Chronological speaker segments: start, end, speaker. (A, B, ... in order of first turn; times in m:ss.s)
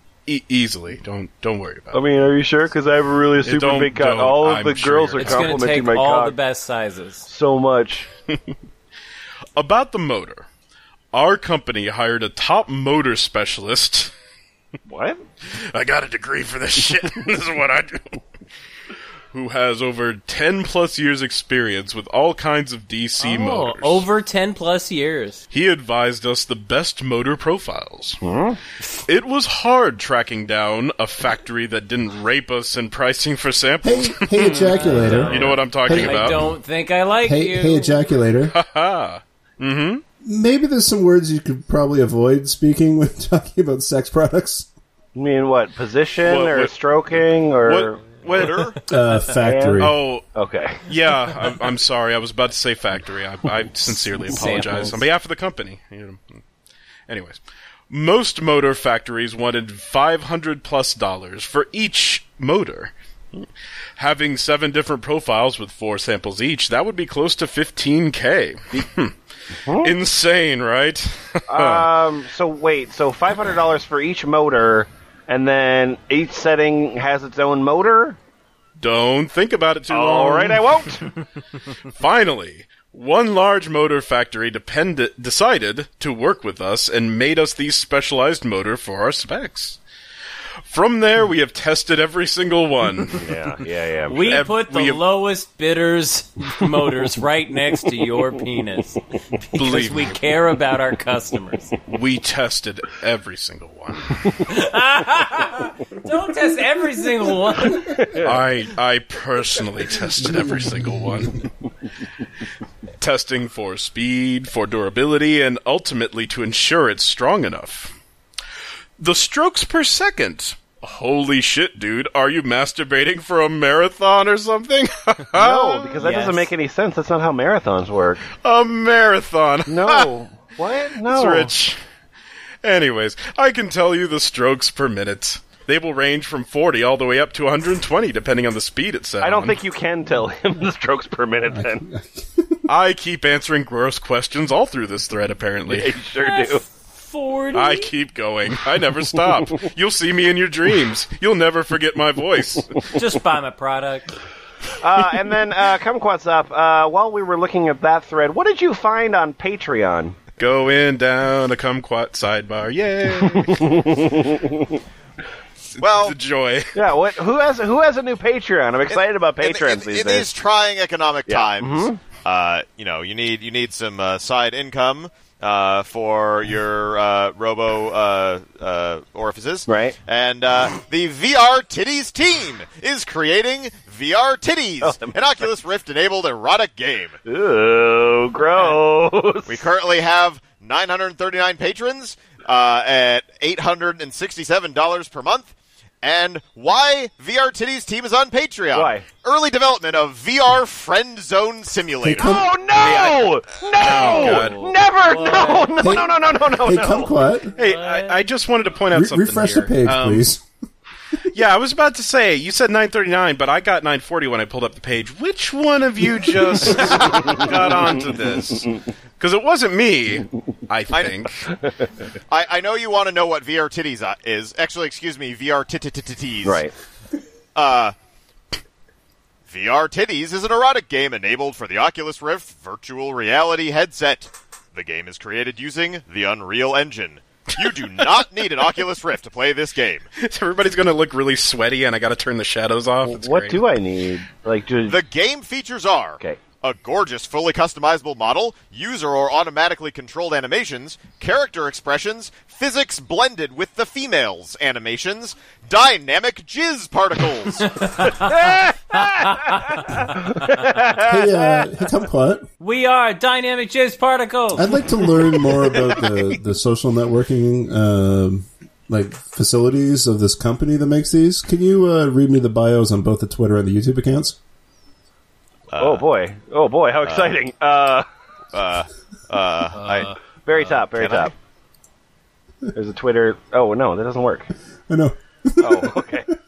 0:00.3-0:02.0 A
0:01.9-0:06.4 B
0:03.4-0:05.7 A
0:05.2-0:07.3 C
0:07.3-0:08.1 B
0:09.6-0:10.5 A
0:11.1-0:14.1 A
0:14.9-0:15.2 B
0:15.6-0:18.2 A
0:19.3-0:24.1 A
0:23.2-0:25.4 C
0:25.5-0:28.2 A
0:28.2-0:28.6 B
0:28.9-0:36.4 A
0:33.8-0:36.5 D
0:34.4-0:38.0 C
0:37.2-0:38.5 D
0:38.5-0:40.0 A
0:40.2-0:44.7 D
0:45.2-0:48.0 B
0:46.2-0:46.7 A
0:47.6-0:48.8 A
0:48.2-0:48.8 E
0:48.9-0:50.0 D
0:49.4-0:50.8 B
0:49.8-0:50.2 A
0:50.9-0:56.4 A
0:54.3-0:55.0 C
0:57.1-1:09.2 A
1:09.7-1:09.9 B
1:09.7-1:11.9 A
1:11.5-1:18.2 B
1:18.8-1:20.9 A
1:19.9-1:21.1 B
1:21.9-1:29.8 A
1:30.6-1:33.3 A
1:33.2-1:34.4 B
1:34.1-1:41.8 C
1:34.1-1:35.0 A
1:39.6-1:40.2 A
1:41.9-1:44.4 A
1:44.4-1:48.1 C
1:47.7-1:48.4 B
1:48.1-1:51.5 A
1:53.0-1:57.9 A
1:59.0-2:06.1 A
2:05.4-2:08.3 B
2:06.0-2:06.5 C
2:08.4-2:10.1 A
2:09.7-2:11.5 B
2:11.0-2:11.8 A
2:12.6-2:19.6 A
2:19.2-2:21.9 B
2:21.5-2:22.6 D
2:22.7-2:26.0 A
2:25.7-2:26.6 B
2:26.2-2:27.9 C
2:27.5-2:33.0 A
2:32.9-2:34.2 C
2:34.8-2:40.2 B
2:40.4-2:44.1 A
2:43.4-2:44.8 B
2:45.7-2:46.8 A
2:45.8-2:46.2 E
2:46.8-2:50.3 B
2:48.9-3:07.2 E
2:51.3-2:52.0 B
2:59.7-3:00.0 B
3:04.8-3:05.2 B
3:07.3-3:09.7 B
3:09.5-3:22.4 E
3:18.7-3:19.0 B
3:22.0-3:22.5 D
3:22.2-3:27.2 B
3:22.8-3:24.7 A
3:23.8-3:25.9 C
3:25.8-3:27.5 D
3:27.6-3:28.2 C
3:27.6-3:30.3 A
3:28.9-3:30.4 D
3:31.3-3:41.5 A
3:40.9-3:41.2 E
3:42.3-3:46.7 E
3:46.4-3:46.7 B
3:47.6-3:48.0 E
3:49.5-4:00.1 E
4:00.2-4:03.6 A
4:03.0-4:05.0 B
4:04.9-4:18.0 E
4:17.6-4:19.8 C
4:18.2-4:21.6 B
4:21.0-4:22.5 D
4:22.6-4:25.7 C
4:24.5-4:34.4 D
4:35.7-4:36.0 E
4:35.8-4:38.1 B
4:37.0-4:37.4 E
4:38.5-4:40.1 E
4:39.7-4:40.2 C
4:40.5-4:41.3 B
4:40.7-4:41.3 E
4:42.7-4:44.5 B
4:44.9-4:46.2 D
4:45.6-4:46.3 B